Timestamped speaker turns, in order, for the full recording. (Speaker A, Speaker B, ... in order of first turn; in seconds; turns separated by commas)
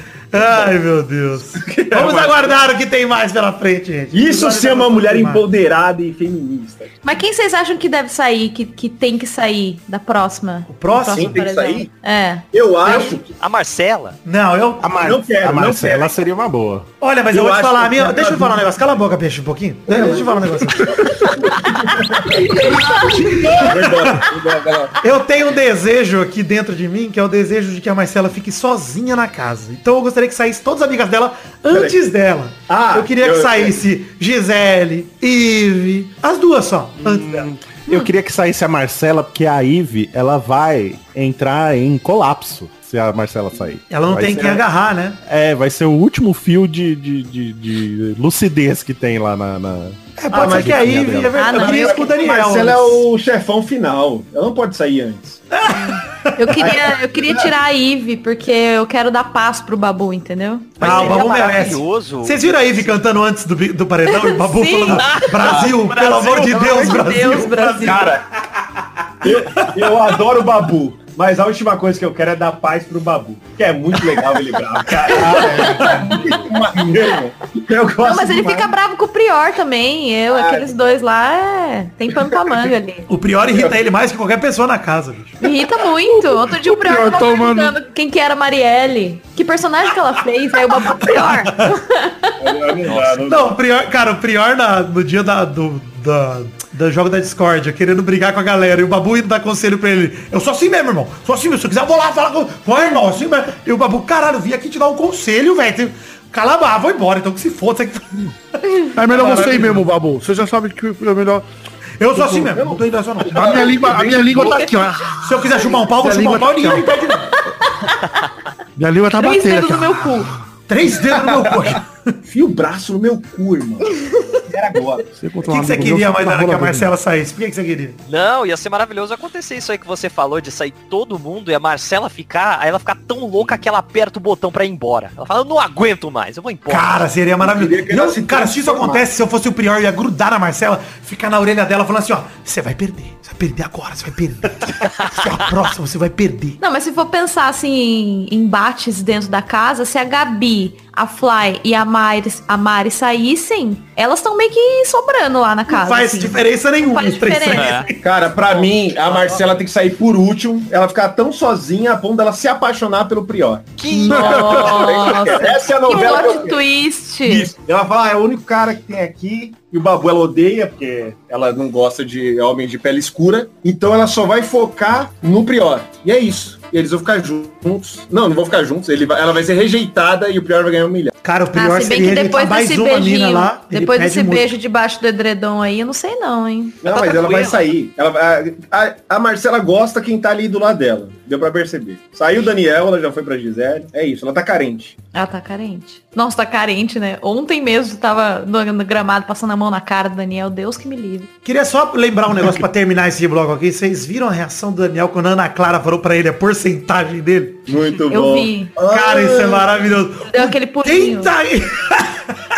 Speaker A: 0.3-5.4, Speaker B: 0.4-0.7, Speaker B: 1.6-2.6, Speaker B: 4.1-6.9, Speaker C: 7.0-12.4, Speaker A: 10.7-11.4, Speaker B: 11.1-11.9, Speaker B: 12.5-13.3, Speaker A: 12.8-13.2, Speaker D: 13.4-14.2, Speaker A: 14.2-14.8, Speaker E: 14.8-16.9, Speaker B: 15.0-16.1, Speaker A: 17.0-21.4, Speaker B: 17.3-18.7, Speaker B: 19.9-25.0, Speaker A: 22.3-24.3, Speaker A: 25.0-37.5, Speaker B: 31.7-32.0, Speaker B: 32.7-33.8, Speaker E: 37.0-44.6, Speaker A: 43.9-45.2, Speaker E: 45.3-51.4, Speaker A: 50.2-53.0, Speaker B: 50.3-55.4, Speaker C: 51.4-52.1, Speaker A: 55.5-56.8, Speaker C: 55.7-61.3, Speaker D: 60.8-62.9, Speaker A: 60.8-68.1, Speaker C: 64.1-65.6, Speaker D: 64.9-66.9, Speaker C: 66.5-68.1, Speaker B: 67.8-68.2, Speaker B: 69.2-78.7, Speaker A: 69.3-69.9, Speaker A: 75.1-76.1, Speaker C: 78.0-83.1, Speaker B: 80.3-81.0, Speaker A: 83.1-85.4, Speaker B: 83.5-83.8, Speaker C: 85.4-92.4, Speaker F: 86.2-87.8, Speaker A: 90.9-91.8, Speaker B: 92.4-93.6, Speaker D: 92.9-93.2, Speaker A: 93.3-109.7, Speaker F: 108.9-111.5, Speaker B: 109.2-109.8, Speaker A: 112.0-113.8, Speaker F: 112.1-112.6, Speaker B: 112.5-114.7, Speaker F: 113.2-117.0, Speaker A: 115.2-117.4, Speaker F: 118.8-120.4, Speaker C: 119.2-120.3, Speaker A: 120.7-122.1, Speaker B: 121.3-121.6, Speaker B: 122.3-125.1, Speaker F: 125.2-126.9, Speaker A: 125.5-128.0, Speaker D: 128.1-137.1, Speaker A: 136.7-146.6, Speaker B: 137.4-139.1, Speaker C: 146.6-157.8, Speaker A: 155.7-158.0, Speaker D: 157.5-157.9, Speaker B: 158.0-166.6, Speaker D: 163.8-165.0, Speaker C: 164.0-167.5, Speaker B: 167.3-181.1, Speaker A: 181.2-184.5, Speaker C: 181.6-186.8, Speaker B: 186.8-194.9, Speaker D: 186.9-187.7, Speaker C: 195.1-201.3, Speaker A: 201.4-207.7, Speaker B: 207.7-209.9, Speaker C: 208.1-208.7, Speaker A: 208.8-212.3, Speaker C: 210.2-211.3